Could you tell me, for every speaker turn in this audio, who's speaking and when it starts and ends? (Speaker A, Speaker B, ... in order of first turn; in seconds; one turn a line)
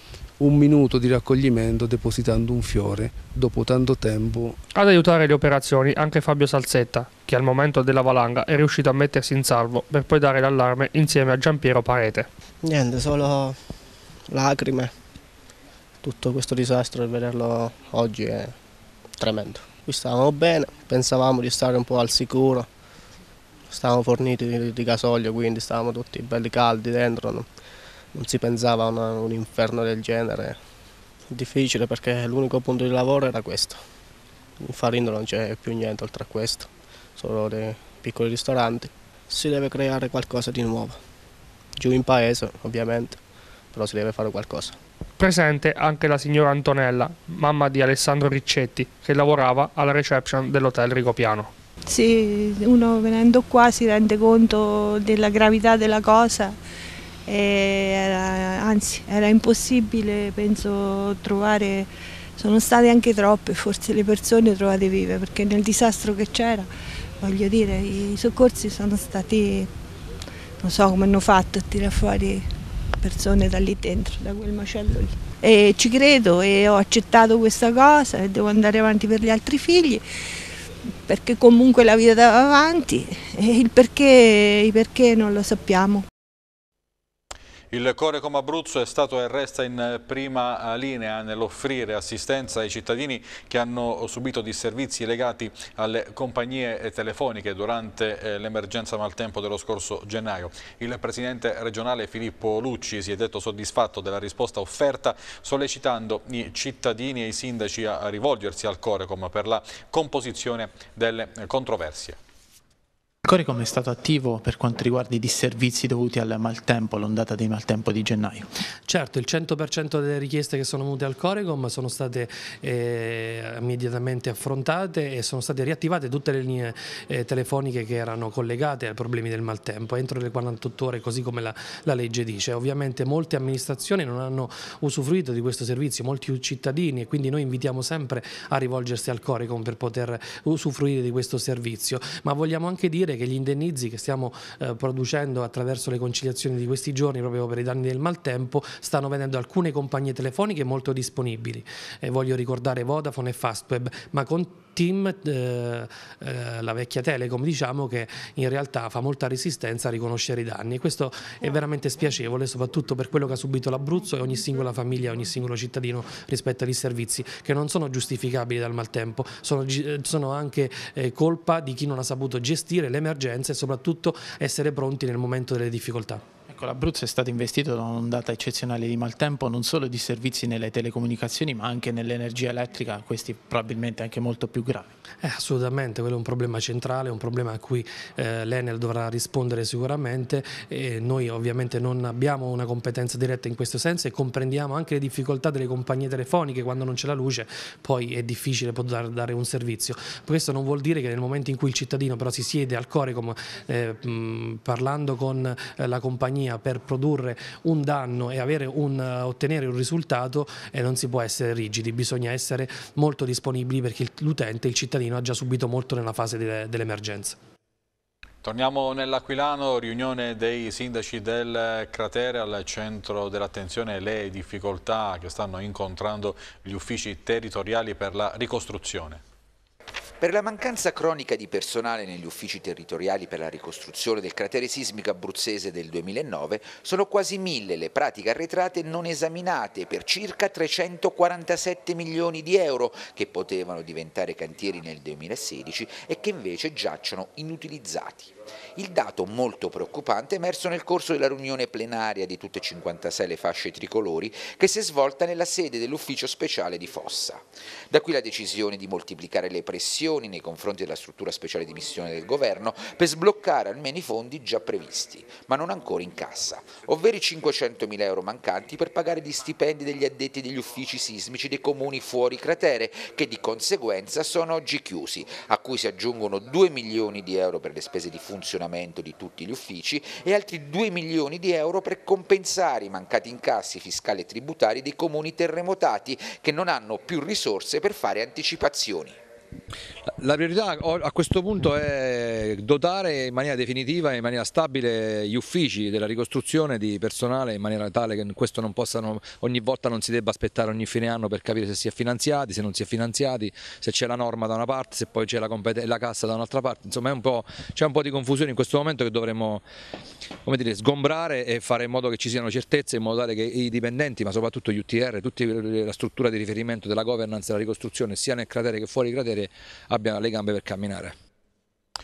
Speaker A: 0.4-4.6
Speaker B: 4.7-12.3
Speaker C: 12.6-13.6
Speaker C: 14.3-14.9
Speaker C: 16.0-18.6
Speaker C: 19.1-22.7
Speaker C: 23.7-27.5
Speaker C: 28.1-30.6
Speaker C: 31.3-33.8
Speaker C: 34.6-41.0
Speaker C: 41.8-44.8
Speaker B: 45.2-51.5
Speaker D: 51.9-56.6
Speaker D: 57.3-66.7
Speaker D: 67.2-69.7
Speaker D: 70.6-80.0
Speaker D: 81.1-86.0
Speaker E: 87.7-112.2
Speaker F: 113.2-118.5
Speaker G: 118.9-176.2
Speaker F: 176.5-184.9
Speaker G: 185.2-217.4
Speaker E: 218.4-229.2
Speaker H: 230.2-289.2
Speaker I: 290.1-309.7
Speaker I: 310.4-321.1